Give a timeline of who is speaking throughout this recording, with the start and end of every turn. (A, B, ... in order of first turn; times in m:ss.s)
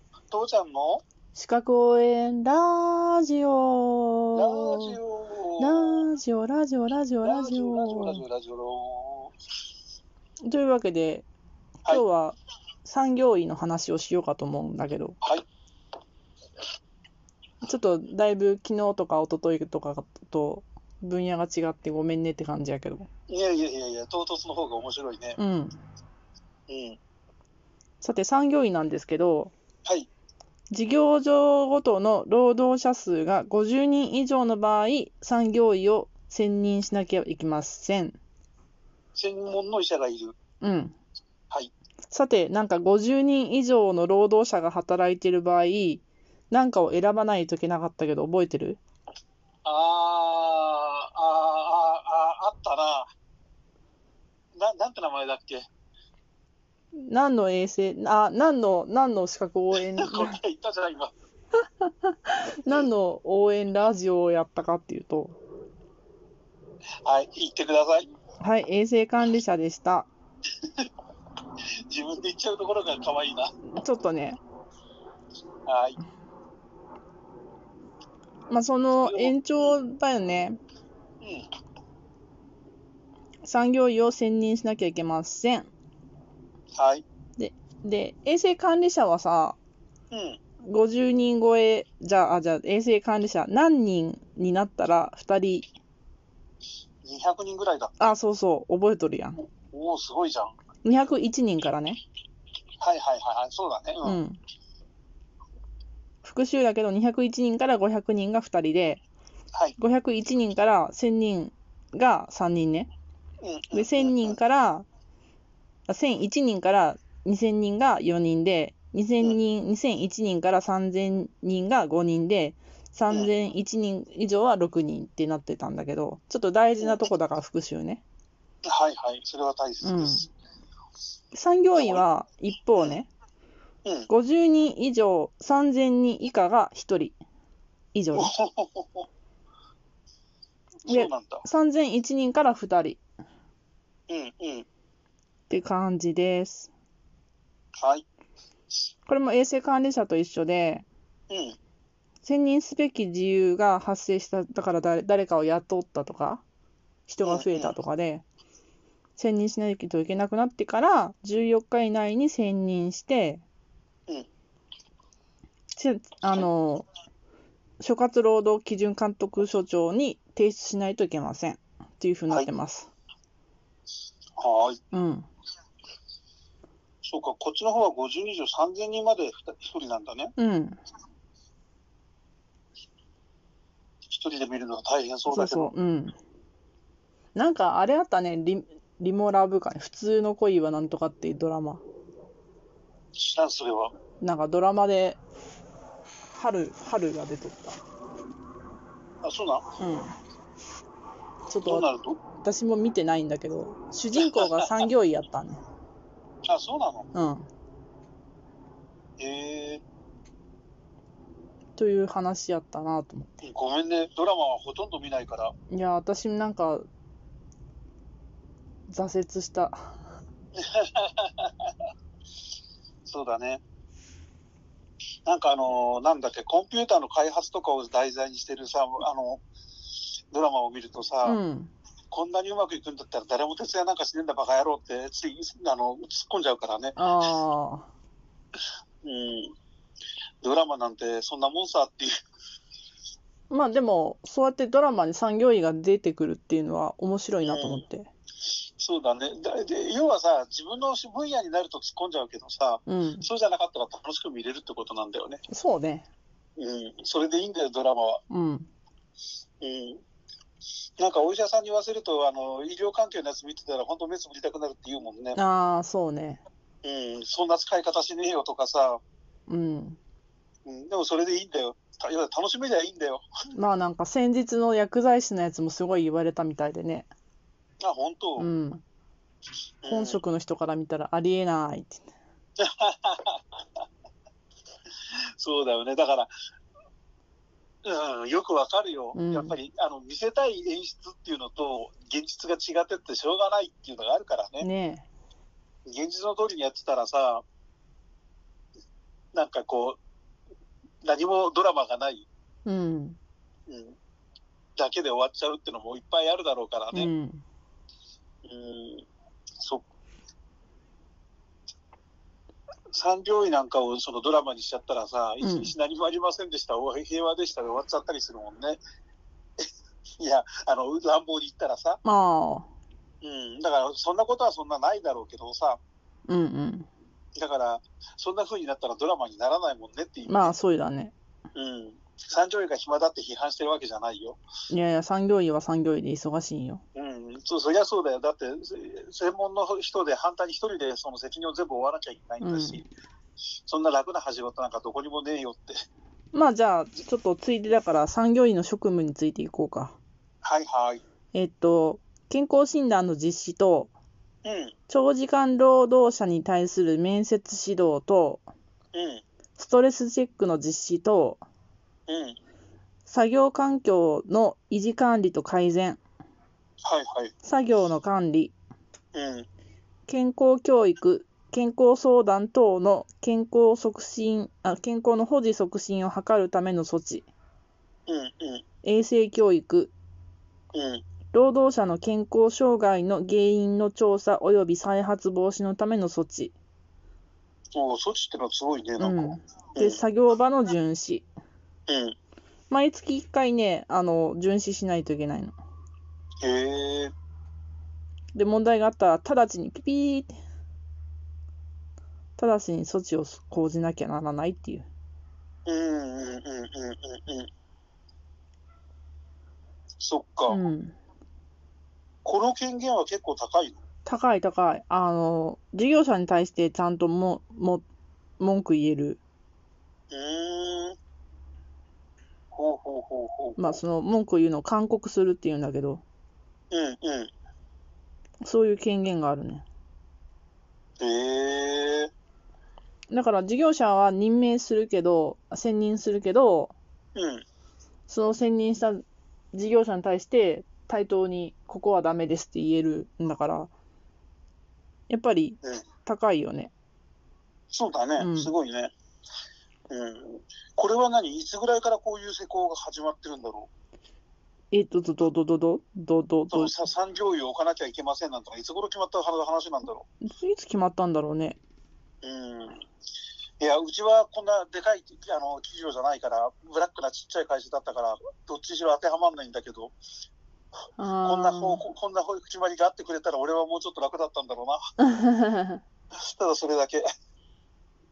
0:00.3-0:01.0 A
0:01.3-0:05.0 B
0:04.3-0:06.1 A
0:05.6-0:08.2 B
0:07.2-0:09.3 A
0:10.4-0:11.2 B
0:11.8-0:15.2 B
0:17.6-0:23.1 B
0:23.3-0:25.4 A
0:25.4-0:25.8 B
0:26.7-0:27.0 A
0:28.0-0:29.5 B
0:30.7-0:38.2 B
0:39.1-0:40.4 A
0:40.6-0:40.9 B
0:42.1-0:48.8 B
0:49.6-0:53.0 A
0:54.5-0:55.7 A
0:56.9-1:00.4 B
0:59.7-1:01.1 A
1:01.8-1:05.4 B
1:07.0-1:08.1 A
1:08.4-1:10.1 B
1:11.9-1:13.5 A
1:13.7-1:14.4 B
1:15.6-1:16.0 A
1:18.5-1:20.6 B
1:19.0-1:19.8 A
1:21.2-1:21.5 A
1:23.4-1:25.7 B
1:26.7-1:27.0 A
1:27.4-1:29.6 B
1:30.1-1:30.4 A
1:30.6-1:35.6 B
1:37.0-1:38.0 A
1:38.0-1:39.4 B
1:39.6-1:40.5 A
1:40.8-1:42.0 B
1:42.8-1:44.2 A
1:44.0-1:44.4 B
1:46.2-1:49.0 B
1:49.8-1:52.9 B
1:53.4-1:54.4 A
1:53.7-1:54.8 B
1:55.9-2:08.0 B
2:08.6-2:10.3 A
2:09.8-2:10.3 B
2:11.3-2:13.1 B
2:11.7-2:12.0 A
2:13.8-2:14.1 A
2:14.1-2:17.2 B
2:17.9-2:18.3 B
2:18.1-2:19.0 A
2:20.8-2:21.4 A
2:20.9-2:23.0 B
2:24.1-2:24.6 A
2:25.5-2:26.7 B
2:27.8-2:28.0 A
2:29.0-2:30.8 B
2:31.3-2:31.6 A
2:32.2-2:36.4 B
2:37.1-2:38.2 B
2:37.2-2:37.7 A
2:39.2-2:43.4 B
2:45.7-2:46.8 B
2:47.8-2:52.9 B
2:54.4-2:54.8 A
2:54.9-2:55.3 B
2:57.0-3:00.3 A
3:00.4-3:00.8 B
3:04.1-3:05.7 A
3:05.3-3:06.2 B
3:07.3-3:11.8 B
3:13.2-3:13.9 A
3:14.2-3:15.2 B
3:16.3-3:17.8 B
3:19.2-3:19.6 A
3:19.8-3:20.1 B
3:21.5-3:21.9 B
3:21.6-3:22.2 A
3:22.4-3:25.6 B
3:26.4-3:27.1 A
3:27.1-3:27.5 B
3:29.2-3:29.8 A
3:31.8-3:33.5 B
3:33.4-3:35.5 A
3:35.7-3:36.8 B
3:38.9-3:39.8 B
3:40.5-3:41.7 A
3:43.0-3:43.6 A
3:45.2-3:49.4 A
3:50.3-3:51.4 A
3:51.2-3:51.7 B
3:52.1-3:57.0 A
3:57.0-3:57.9 B
3:59.0-3:59.5 A
4:00.4-4:02.1 A
4:03.5-4:08.1 B
4:07.4-4:07.8 A
4:08.8-4:15.4 A
4:12.8-4:13.3 B
4:15.5-4:16.1 B
4:16.6-4:18.2 A
4:18.3-4:18.7 B
4:19.6-4:20.0 A
4:21.0-4:25.4 A
4:25.4-4:26.4 B
4:26.8-4:29.0 A
4:29.5-4:30.0 B
4:30.6-4:33.2 A
4:33.5-4:37.1 B
4:37.8-4:38.5 A
4:38.4-4:38.8 B
4:39.8-4:40.2 A
4:39.9-4:42.1 B
4:42.6-4:43.4 A
4:45.4-4:46.3 A
4:47.8-4:54.7 A
4:49.1-4:49.5 B
4:54.6-4:55.0 B
4:55.8-4:57.4 A
4:59.3-5:00.0 A
5:01.0-5:02.2 A
5:02.6-5:03.2 B
5:03.7-5:04.0 A
5:04.8-5:07.1 A
5:06.9-5:07.4 B
5:08.4-5:09.0 A
5:09.6-5:09.8 A
5:12.9-5:18.8 A
5:15.4-5:15.7 B
5:20.2-5:22.0 A
5:22.0-5:22.7 B
5:23.2-5:25.8 A
5:26.3-5:26.9 B
5:27.3-5:30.5 A
5:30.2-5:31.1 B
5:31.5-5:34.4 A
5:34.7-5:36.8 B
5:36.9-5:42.8 A
5:42.4-5:42.8 B
5:43.6-5:45.7 A
5:46.3-5:50.0 B
5:50.4-5:51.0 A
5:51.3-5:53.9 B
5:54.4-5:54.7 A
5:54.9-5:58.4 B
5:58.9-5:59.2 A
5:59.6-6:01.4 B
6:02.1-6:02.4 A
6:03.0-6:06.0 B
6:06.8-6:07.3 A
6:07.4-6:08.5 B
6:09.1-6:09.4 A
6:10.1-6:17.3 B
6:18.1-6:18.6 A
6:18.8-6:19.9 B
6:20.7-6:21.0 A
6:21.3-6:26.5 B
6:27.7-6:30.0 A
6:29.0-6:31.2 B
6:31.9-6:32.1 A
6:32.7-6:35.5 B
6:36.4-6:37.1 A
6:38.3-6:40.3 B
6:42.4-6:44.9 B
6:45.6-6:47.5 A
6:50.0-6:50.6 A
6:50.5-6:50.9 B
6:52.2-6:53.8 A
6:54.0-6:57.8 B
6:58.4-6:59.2 B
7:00.1-7:01.0 A
7:02.5-7:03.8 A
7:03.6-7:06.0 B
7:06.7-7:07.3 A
7:08.4-7:09.6 B
7:11.0-7:12.1 A
7:13.1-7:16.7 B
7:17.1-7:17.4 A
7:18.1-7:23.7 B
7:25.1-7:26.7 B
7:27.7-7:28.9 A
7:28.2-7:28.5 B
7:29.9-7:33.7 A
7:34.7-7:36.7 B
7:36.5-7:40.0 A
7:40.2-7:41.6 B
7:42.2-7:42.8 A
7:43.6-7:50.0 A
7:51.0-7:51.8 B
7:51.2-7:54.8 A
7:55.0-7:55.8 B
7:56.1-7:57.0 A